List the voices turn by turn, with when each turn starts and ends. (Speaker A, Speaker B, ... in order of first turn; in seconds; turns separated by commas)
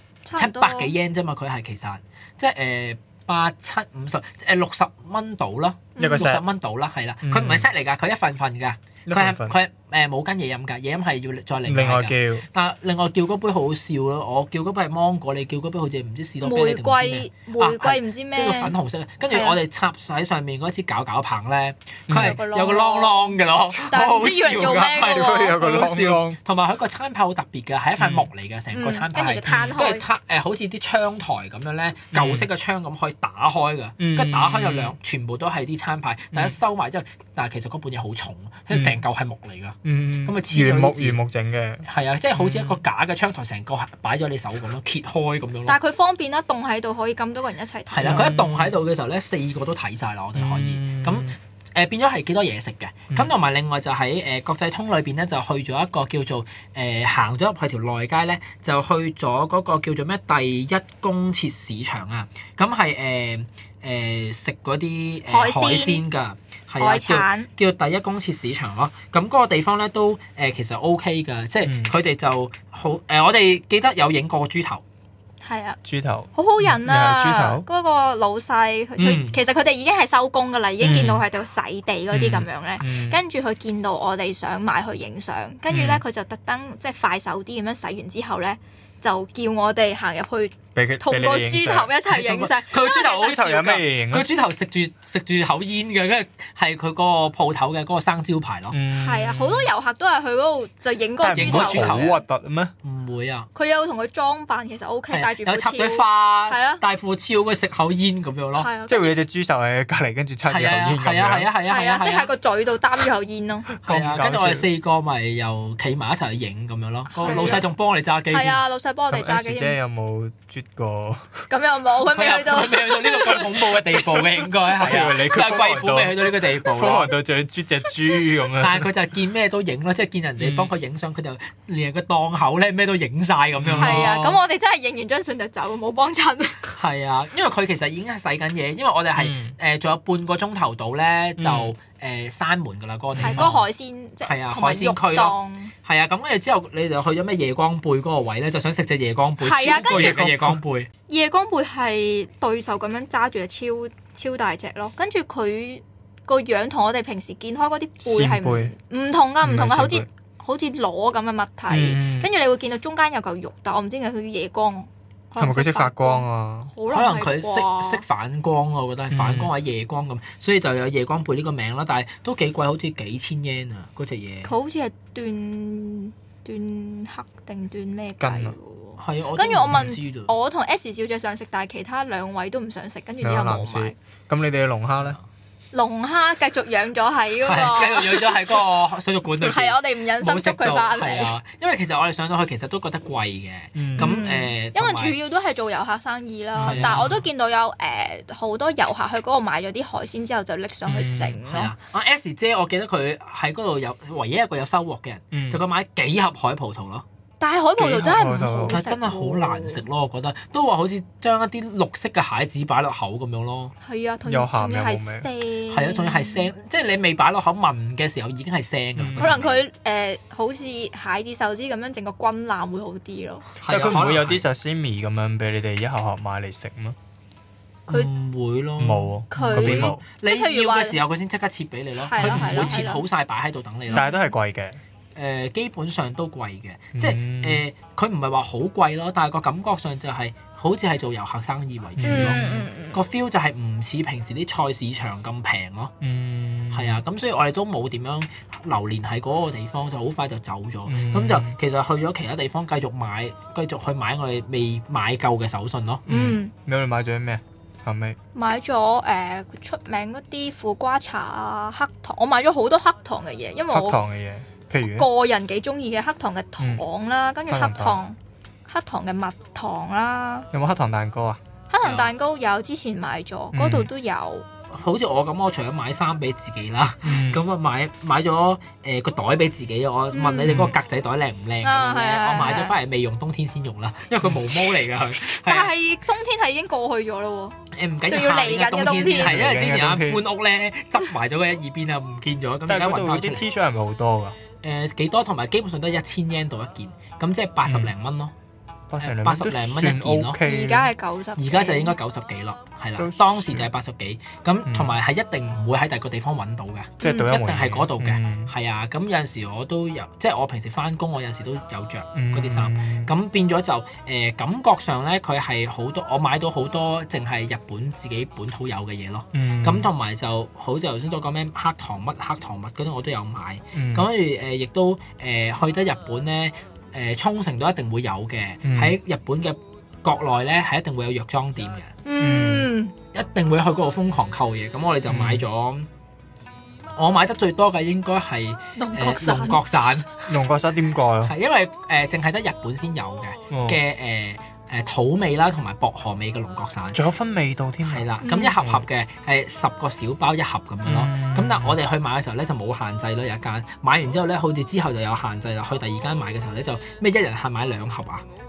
Speaker A: 0.2-0.9, Speaker B: 0.4-41.2, Speaker A: 6.0-6.3, Speaker C: 6.0-6.5, Speaker C: 7.2-7.7, Speaker C: 9.1-9.6, Speaker C: 11.7-12.5, Speaker A: 16.4-18.7, Speaker A: 19.3-19.6, Speaker C: 22.1-22.4, Speaker A: 22.1-25.6, Speaker C: 25.0-26.4, Speaker C: 28.0-28.3, Speaker A: 28.7-30.0, Speaker C: 32.1-32.5, Speaker C: 34.0-35.0, Speaker C: 38.7-39.0, Speaker C: 39.8-42.8, Speaker B: 41.9-45.8, Speaker A: 45.7-48.4, Speaker B: 47.9-74.8, Speaker C: 48.0-48.7, Speaker C: 50.4-51.4, Speaker A: 65.3-66.0, Speaker A: 66.8-67.5, Speaker C: 71.6-71.9, Speaker A: 75.4-75.8, Speaker C: 75.8-77.7, Speaker A: 76.3-93.3, Speaker B: 79.0-79.4, Speaker C: 80.8-81.2, Speaker C: 82.1-83.2, Speaker C: 85.7-86.0, Speaker C: 90.8-92.2, Speaker B: 92.2-98.8, Speaker C: 92.9-94.3, Speaker C: 98.7-99.7, Speaker A: 98.9-102.2, Speaker C: 101.2-102.7, Speaker B: 101.3-102.2, Speaker B: 102.8-103.5, Speaker A: 103.5-106.8, Speaker B: 105.1-108.7, Speaker A: 108.6-109.2, Speaker C: 108.9-111.5, Speaker B: 110.5-112.3, Speaker A: 111.6-113.7, Speaker C: 113.8-114.7, Speaker B: 113.9-118.6, Speaker A: 117.1-117.7, Speaker C: 117.2-117.6, Speaker A: 118.3-119.8, Speaker C: 119.1-121.4, Speaker A: 121.5-124.0, Speaker B: 122.1-127.1, Speaker C: 124.7-128.9, Speaker B: 128.6-134.4, Speaker C: 130.4-130.7, Speaker C: 133.6-134.2, Speaker A: 133.7-136.7, Speaker B: 136.8-143.6, Speaker C: 139.2-139.6, Speaker C: 141.4-141.7, Speaker C: 143.1-143.6, Speaker A: 143.2-145.7, Speaker B: 144.2-150.9, Speaker A: 149.4-150.2, Speaker C: 149.7-150.6, Speaker A: 151.1-168.0, Speaker C: 158.0-158.7, Speaker C: 159.4-160.1, Speaker C: 161.7-162.3, Speaker C: 165.4-166.7, Speaker B: 166.9-174.5, Speaker C: 169.1-169.5, Speaker A: 174.4-183.9, Speaker C: 178.2-178.6, Speaker B: 179.0-180.3, Speaker C: 183.2-185.2, Speaker B: 185.0-185.2, Speaker A: 185.7-188.6, Speaker B: 187.4-195.2, Speaker A: 189.4-191.3, Speaker C: 193.8-194.2, Speaker A: 194.0-201.7, Speaker C: 196.6-197.2, Speaker B: 196.6-197.1, Speaker C: 200.9-201.4, Speaker B: 201.5-207.1, Speaker C: 205.3-205.6, Speaker A: 207.4-209.8, Speaker C: 207.8-208.8, Speaker B: 208.7-213.7, Speaker A: 213.8-216.5, Speaker C: 214.3-215.3, Speaker B: 215.7-219.6, Speaker C: 219.0-219.4, Speaker A: 219.2-223.5, Speaker B: 223.6-224.4, Speaker C: 223.7-227.0, Speaker B: 227.9-234.1, Speaker C: 228.8-230.0, Speaker A: 229.3-231.0, Speaker A: 232.0-233.0, Speaker C: 232.2-232.8, Speaker A: 233.9-234.3, Speaker C: 233.9-234.8, Speaker B: 235.2-245.9, Speaker C: 237.0-237.6, Speaker C: 242.0-242.6, Speaker A: 242.0-243.0, Speaker C: 246.0-247.0, Speaker B: 246.7-256.1, Speaker C: 250.9-251.6, Speaker A: 256.1-256.5, Speaker C: 256.1-258.2, Speaker A: 258.4-264.0, Speaker C: 263.7-265.1, Speaker A: 264.9-270.5, Speaker C: 267.5-268.0, Speaker C: 270.5-271.4, Speaker A: 271.7-274.5, Speaker B: 271.8-272.1, Speaker C: 273.5-273.9, Speaker B: 274.7-285.7, Speaker C: 277.0-277.4, Speaker A: 280.1-280.7, Speaker C: 280.5-280.7, Speaker A: 281.6-282.8, Speaker A: 285.2-287.6, Speaker B: 287.7-293.5, Speaker A: 288.1-289.4, Speaker C: 289.1-290.2, Speaker C: 292.7-294.4, Speaker B: 294.6-298.3, Speaker C: 297.7-297.9, Speaker C: 298.9-300.9, Speaker B: 299.0-300.4, Speaker A: 300.4-302.0, Speaker B: 301.4-331.9, Speaker C: 303.0-303.7, Speaker C: 304.7-304.9, Speaker A: 307.0-307.3, Speaker C: 307.0-308.5, Speaker C: 312.1-313.1, Speaker C: 319.3-319.9, Speaker C: 323.7-324.1, Speaker C: 328.6-329.0, Speaker A: 332.1-332.9, Speaker C: 332.2-332.7, Speaker B: 333.1-335.9, Speaker C: 335.1-335.4, Speaker B: 337.0-340.3, Speaker A: 338.8-339.6, Speaker C: 340.3-341.3, Speaker B: 341.2-347.1, Speaker C: 343.5-343.8, Speaker C: 346.9-348.9, Speaker B: 347.8-358.3, Speaker A: 348.2-348.6, Speaker C: 350.9-351.8